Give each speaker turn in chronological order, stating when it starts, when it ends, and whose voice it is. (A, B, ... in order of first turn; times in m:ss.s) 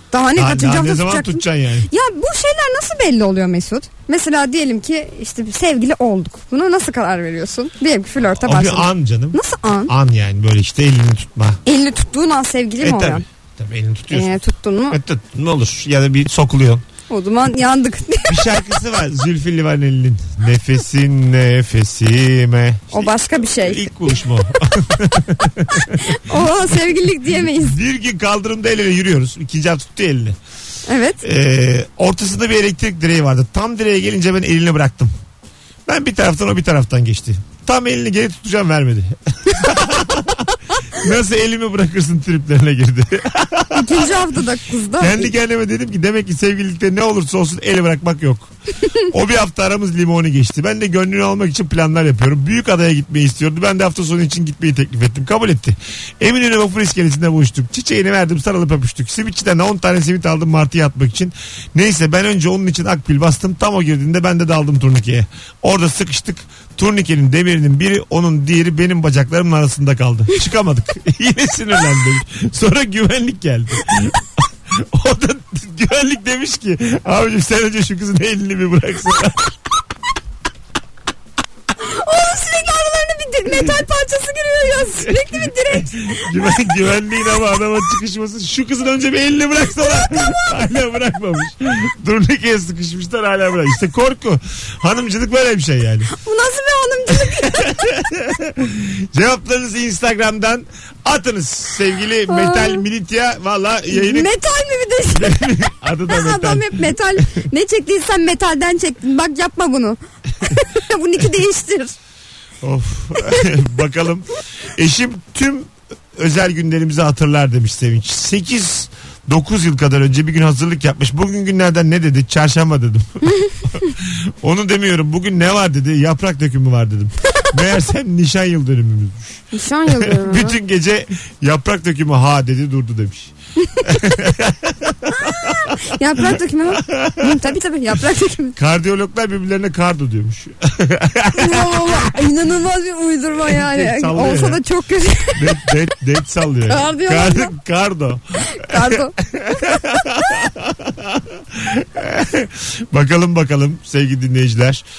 0:00.1-0:09.9 A
0:00.4-0:01.9 B
0:08.4-0:11.6 B
0:11.6-0:13.2 A
0:12.8-0:14.4 B
0:14.1-0:15.0 A
0:14.9-0:16.8 B
0:17.1-0:18.5 A
0:18.3-0:26.2 B
0:22.9-0:23.9 A
0:26.0-0:27.8 A
0:27.4-0:30.4 B
0:30.9-0:31.2 A
0:31.2-0:35.1 B
0:35.8-0:44.3 B
0:43.7-0:45.3 A
0:45.0-0:48.5 B
0:49.1-1:19.5 B
1:21.8-1:26.2 A
1:25.0-1:36.1 B
1:30.0-1:30.4 A
1:36.1-1:37.7 A
1:37.1-1:44.3 B
1:42.3-1:42.8 A
1:43.9-1:45.4 A
1:45.1-1:47.2 B
1:46.1-1:51.9 A
1:52.6-2:13.3 B
2:09.5-2:10.6 A
2:13.8-2:17.4 B
2:15.2-2:18.6 A
2:18.6-2:22.1 B
2:21.3-2:25.7 A
2:23.4-2:24.6 B
2:25.4-2:34.8 B
2:26.7-2:27.5 A
2:28.4-2:29.1 A